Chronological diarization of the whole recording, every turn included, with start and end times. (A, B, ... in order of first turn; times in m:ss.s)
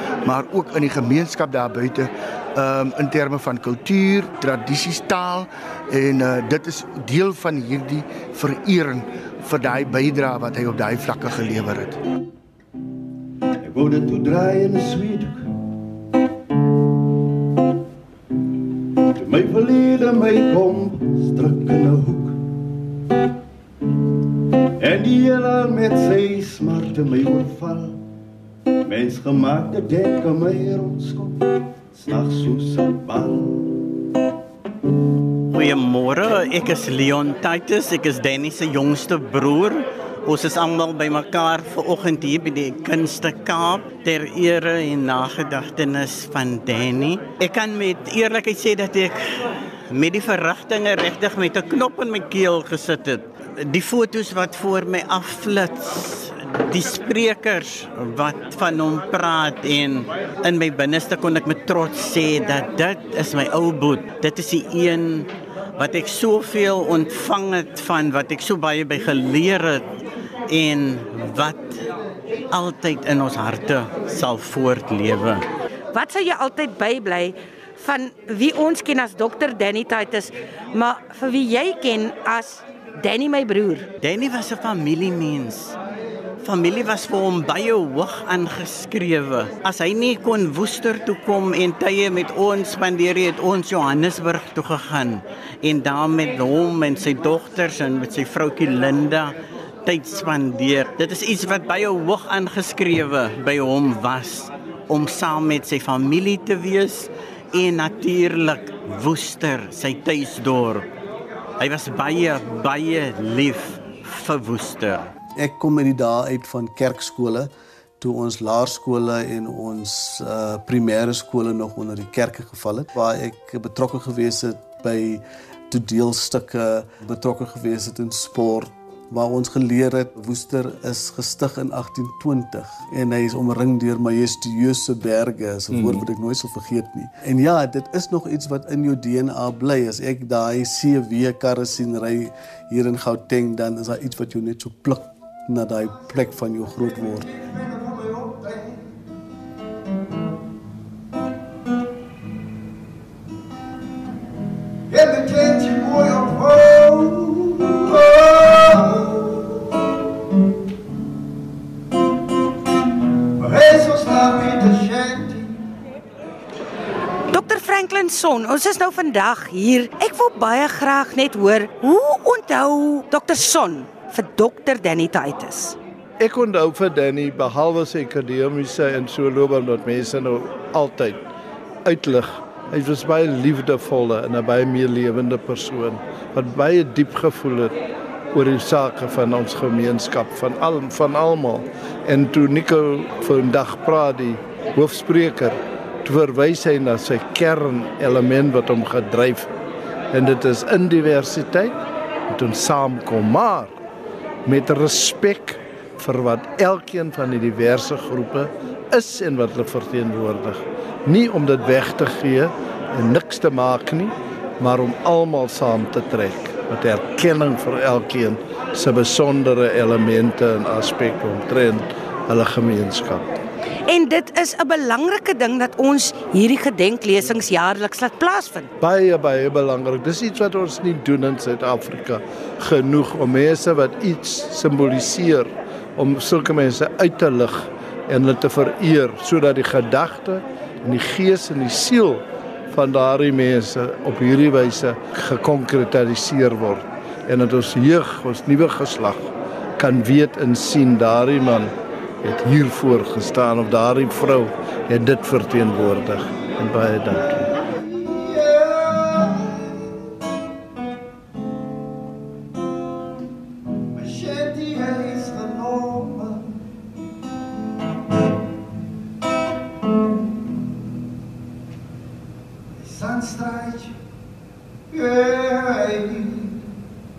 0:00.2-0:12.0 A
0:13.6-0:15.5 B
0:19.2-0:22.4 B
0:24.8-0:28.0 B
0:28.8-0:31.4 B
0:31.9-0:33.7 B
0:35.5-0:49.4 C
0:49.9-1:09.9 C
1:10.5-1:11.8 C
1:12.5-1:15.4 C
1:15.9-1:23.9 D
1:24.0-1:25.8 C
1:26.4-1:50.9 C
1:51.6-1:55.1 C
1:55.4-2:27.3 E
2:26.8-2:28.9 B
2:34.9-2:39.5 B
2:43.4-2:45.7 B
2:47.3-2:55.8 D
2:56.2-3:01.2 F
3:01.8-3:07.8 F
3:08.3-3:19.5 F
3:20.1-3:21.8 F
3:22.3-3:23.8 F
3:24.4-3:43.3 F
3:43.9-3:48.7 D
3:48.8-4:11.7 F
4:12.2-4:17.5 F
4:17.4-4:19.8 B
4:23.9-4:26.6 B
4:32.7-4:34.0 B
4:34.9-4:36.6 B